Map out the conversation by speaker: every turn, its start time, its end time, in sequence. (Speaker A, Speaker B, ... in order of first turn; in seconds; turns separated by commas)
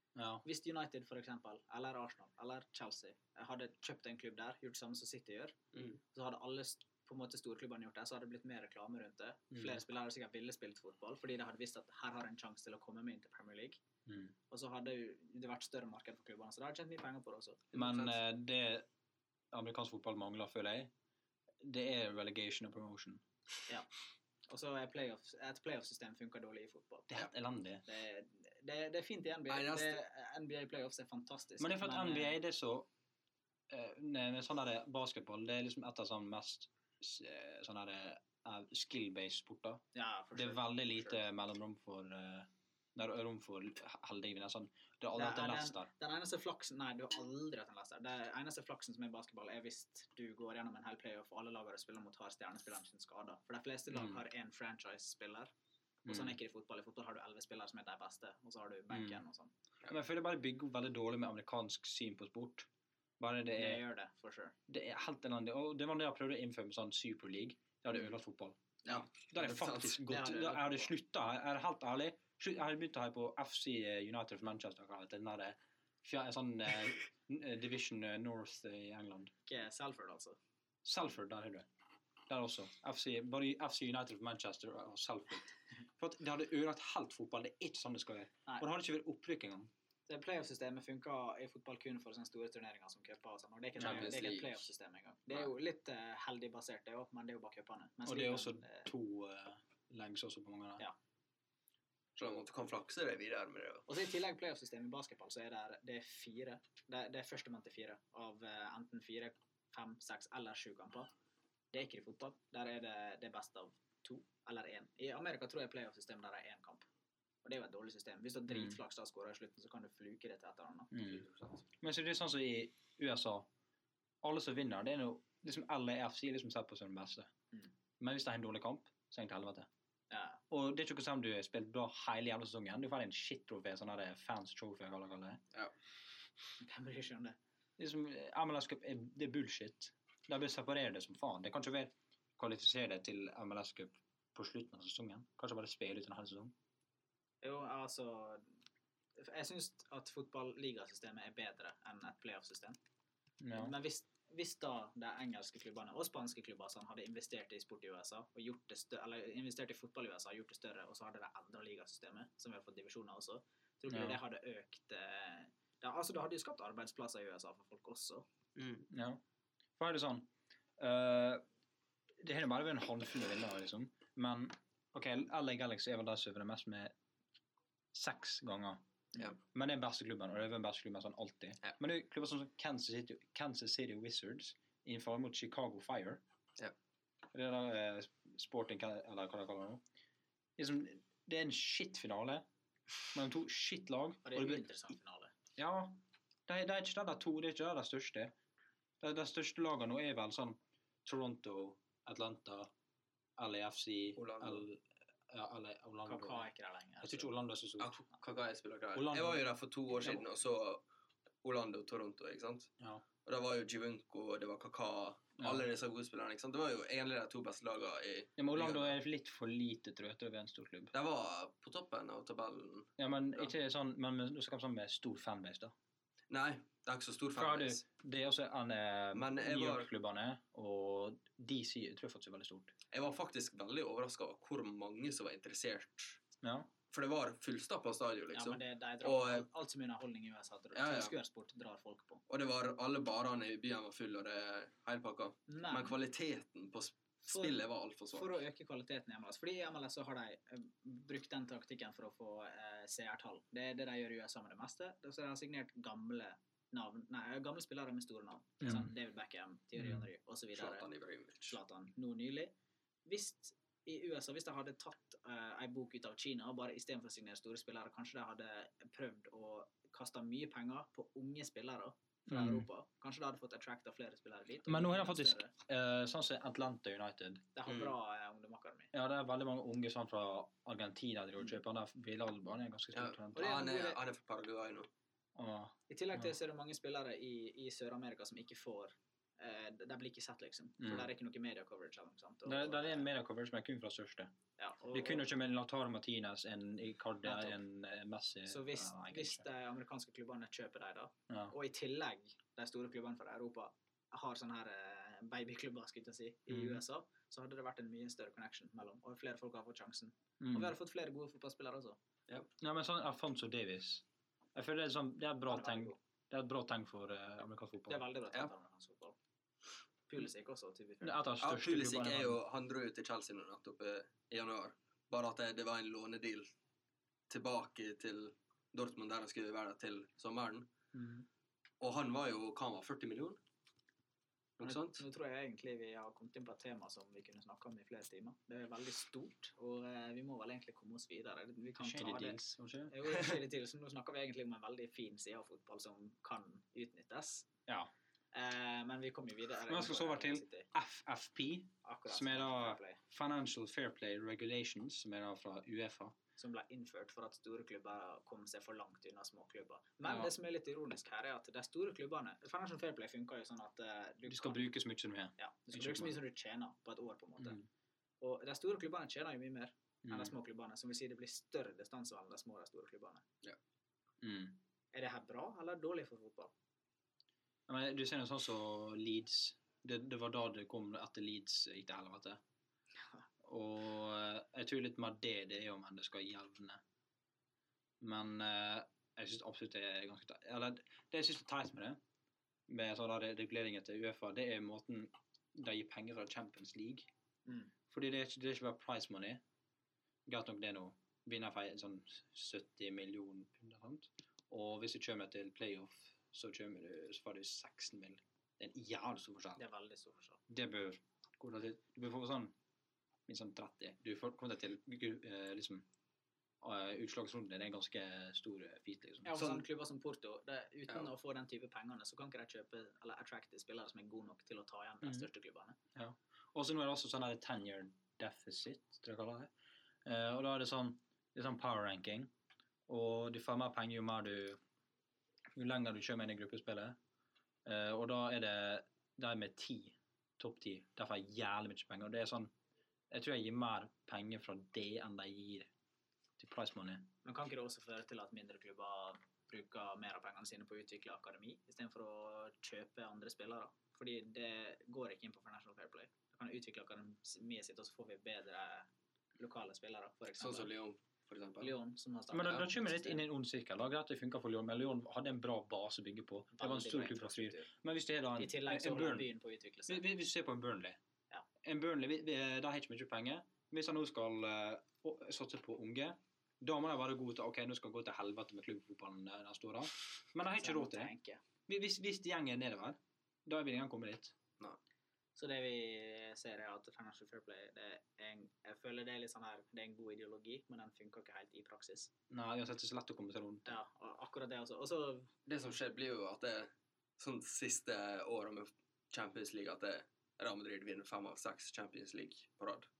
Speaker A: 0.1-0.4, Speaker B: 0.4-5.5, Speaker B: 6.1-13.8, Speaker A: 9.5-9.8, Speaker A: 14.1-14.3, Speaker B: 14.5-17.6, Speaker C: 17.7-18.2, Speaker A: 17.7-18.9, Speaker A: 19.5-20.9, Speaker A: 21.6-23.2, Speaker B: 24.5-27.2, Speaker A: 27.1-27.8, Speaker B: 27.8-32.4, Speaker C: 29.5-30.0, Speaker A: 31.6-32.9, Speaker A: 33.7-39.8, Speaker B: 39.9-41.2, Speaker A: 40.3-45.9, Speaker B: 45.1-55.5, Speaker A: 53.9-54.2, Speaker A: 56.0-56.4, Speaker B: 56.0-59.5, Speaker A: 58.9-59.2, Speaker A: 59.9-62.7, Speaker A: 63.2-63.8, Speaker B: 63.5-64.5, Speaker A: 64.7-79.3, Speaker C: 68.9-70.1, Speaker B: 70.1-70.9, Speaker B: 79.5-80.4, Speaker A: 80.8-81.7, Speaker A: 82.3-89.7, Speaker B: 90.1-98.9, Speaker C: 93.8-94.7, Speaker A: 93.8-94.1, Speaker A: 98.0-100.8, Speaker C: 102.2-103.8, Speaker B: 103.9-111.1, Speaker B: 111.7-116.9, Speaker B: 117.4-121.3, Speaker A: 118.5-118.8, Speaker A: 120.9-121.2, Speaker A: 121.8-123.5, Speaker A: 124.2-127.3, Speaker A: 128.0-129.7, Speaker B: 130.1-130.4, Speaker A: 130.5-135.4, Speaker B: 136.6-137.4, Speaker A: 137.8-146.5, Speaker B: 147.4-148.4, Speaker B: 149.2-152.8, Speaker A: 153.4-153.7, Speaker B: 153.5-168.2, Speaker A: 163.9-164.2, Speaker C: 168.6-168.8, Speaker A: 168.9-169.2, Speaker A: 169.8-171.4, Speaker A: 172.2-176.9, Speaker A: 177.9-178.8, Speaker A: 179.4-186.2, Speaker A: 187.3-189.8, Speaker A: 190.6-192.4, Speaker A: 193.1-194.6, Speaker B: 194.2-195.3, Speaker A: 195.6-198.3, Speaker A: 199.0-202.7, Speaker A: 203.4-206.5, Speaker C: 204.2-204.7, Speaker B: 206.1-207.3, Speaker A: 207.0-208.0, Speaker C: 207.8-210.8, Speaker A: 208.9-209.4, Speaker C: 211.4-212.7, Speaker C: 213.2-218.9, Speaker A: 215.4-215.6, Speaker A: 218.4-220.9, Speaker C: 220.9-223.5, Speaker A: 223.0-225.7, Speaker C: 226.3-227.8, Speaker A: 227.3-232.7, Speaker C: 229.1-229.9, Speaker C: 232.9-236.2, Speaker A: 236.4-236.7, Speaker C: 236.9-239.5, Speaker B: 238.3-242.2, Speaker C: 240.7-241.1, Speaker C: 242.3-248.4, Speaker B: 245.5-245.9, Speaker B: 247.3-247.6, Speaker B: 248.1-260.9, Speaker A: 258.6-258.9, Speaker C: 260.5-261.6, Speaker B: 261.4-262.5, Speaker B: 263.1-275.5, Speaker A: 272.3-272.7, Speaker A: 274.6-277.4, Speaker B: 277.5-278.9, Speaker C: 277.7-277.9, Speaker A: 278.9-283.5, Speaker C: 282.9-284.9, Speaker B: 283.3-284.0, Speaker A: 285.4-286.3, Speaker B: 285.9-293.1, Speaker A: 290.8-291.1, Speaker A: 292.4-294.3, Speaker B: 294.6-295.2, Speaker A: 294.9-299.4, Speaker B: 297.2-297.6, Speaker B: 298.5-312.0, Speaker A: 301.3-301.5, Speaker A: 306.5-306.8, Speaker A: 310.4-310.7, Speaker A: 312.6-318.1, Speaker B: 315.5-316.0, Speaker B: 317.9-319.1, Speaker B: 320.1-321.2, Speaker A: 321.0-322.4, Speaker C: 321.4-326.5, Speaker C: 327.3-330.7, Speaker A: 330.9-331.2, Speaker C: 331.8-333.4, Speaker C: 334.6-335.0, Speaker B: 334.6-347.5, Speaker A: 341.8-343.3, Speaker B: 348.3-350.7, Speaker A: 349.7-356.1, Speaker B: 351.8-353.0, Speaker B: 356.4-364.6, Speaker A: 360.0-360.3, Speaker A: 364.3-366.2, Speaker B: 365.4-367.6, Speaker A: 367.4-367.6, Speaker B: 368.2-373.2, Speaker A: 370.0-370.3, Speaker A: 374.2-374.6, Speaker B: 374.9-376.5, Speaker A: 377.7-382.4, Speaker A: 383.4-386.8, Speaker A: 388.0-392.0, Speaker A: 392.7-397.1, Speaker B: 397.4-397.7, Speaker A: 397.9-399.4, Speaker A: 400.3-409.6, Speaker B: 409.6-410.4, Speaker A: 410.5-412.5, Speaker A: 413.3-415.9, Speaker A: 416.6-419.4, Speaker B: 419.2-425.8, Speaker A: 425.9-429.5, Speaker A: 430.0-432.3, Speaker A: 432.9-434.6, Speaker A: 435.5-437.0, Speaker A: 437.6-442.5, Speaker A: 443.1-445.7, Speaker A: 446.4-447.1, Speaker B: 447.2-460.7, Speaker C: 460.4-461.7, Speaker B: 461.6-463.2, Speaker A: 462.3-469.3, Speaker B: 466.5-467.7, Speaker B: 468.4-470.1, Speaker A: 469.9-471.0, Speaker A: 471.6-481.1, Speaker B: 480.6-481.4, Speaker A: 481.7-484.3, Speaker B: 485.4-492.1, Speaker A: 492.3-493.7, Speaker B: 493.6-495.3, Speaker C: 495.4-502.9